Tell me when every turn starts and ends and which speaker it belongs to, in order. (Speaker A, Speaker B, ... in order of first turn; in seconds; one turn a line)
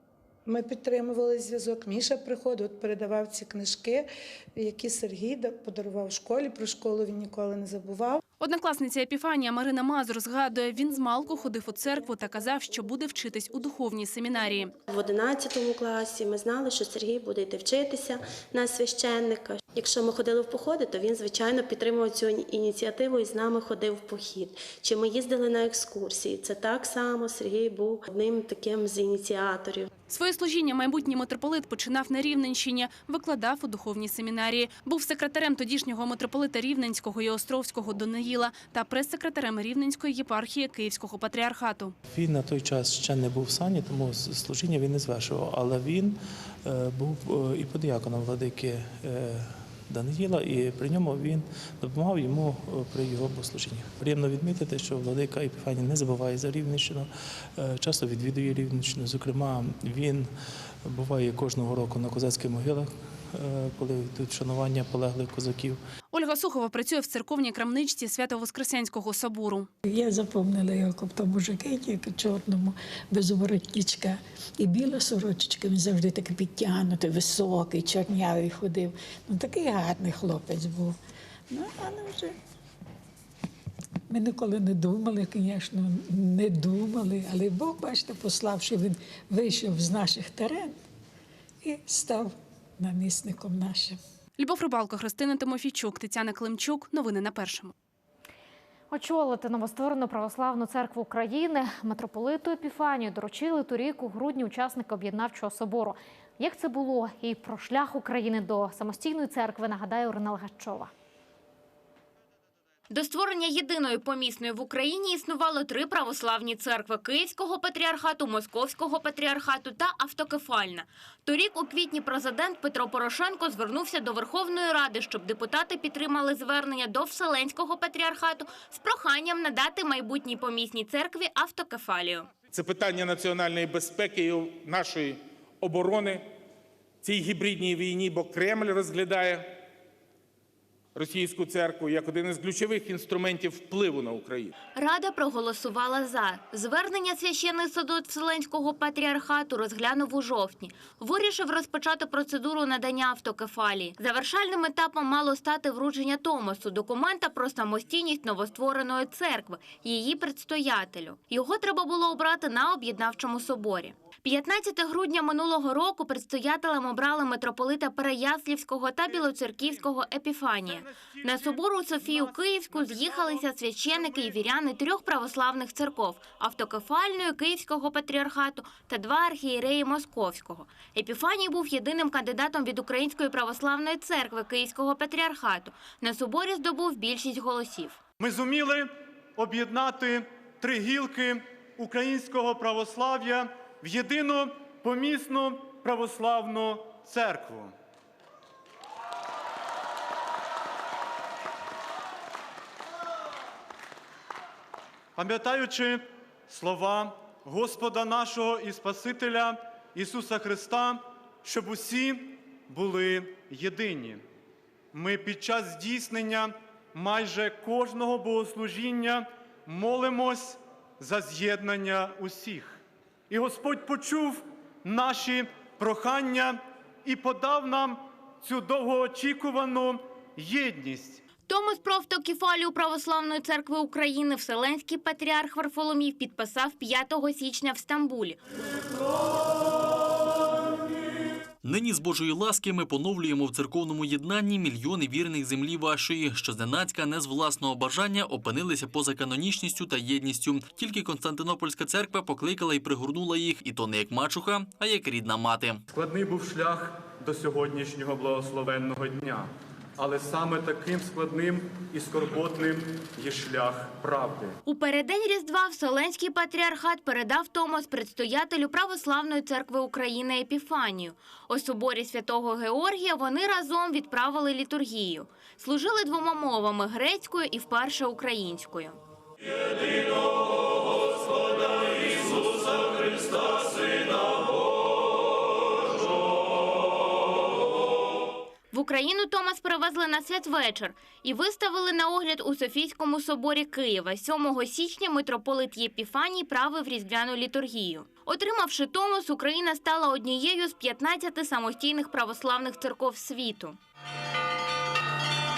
Speaker A: 0.5-8.2
Speaker B: 8.4-14.7
Speaker C: 14.9-29.9
Speaker B: 30.1-41.9
Speaker D: 42.1-46.1
Speaker D: 46.7-60.3
Speaker D: 60.9-65.8
Speaker B: 66.1-69.7
Speaker E: 69.9-81.0
Speaker E: 81.5-82.3
Speaker E: 84.1-90.8
Speaker E: 91.6-94.0
Speaker B: 94.4-97.7
Speaker F: 98.9-110.9
Speaker G: 112.9-132.3
Speaker H: 132.5-136.2
Speaker H: 137.0-139.4
Speaker H: 141.0-144.5
Speaker G: 144.8-170.8
Speaker I: 170.6-174.5
Speaker G: 171.4-188.0
Speaker I: 188.2-197.7
Speaker I: 205.2-214.2
Speaker I: 214.9-231.2
Speaker G: 231.5-238.4
Speaker J: 241.6-255.8
Speaker I: 255.9-264.6
Speaker G: 264.7-279.0
Speaker G: 288.7-303.8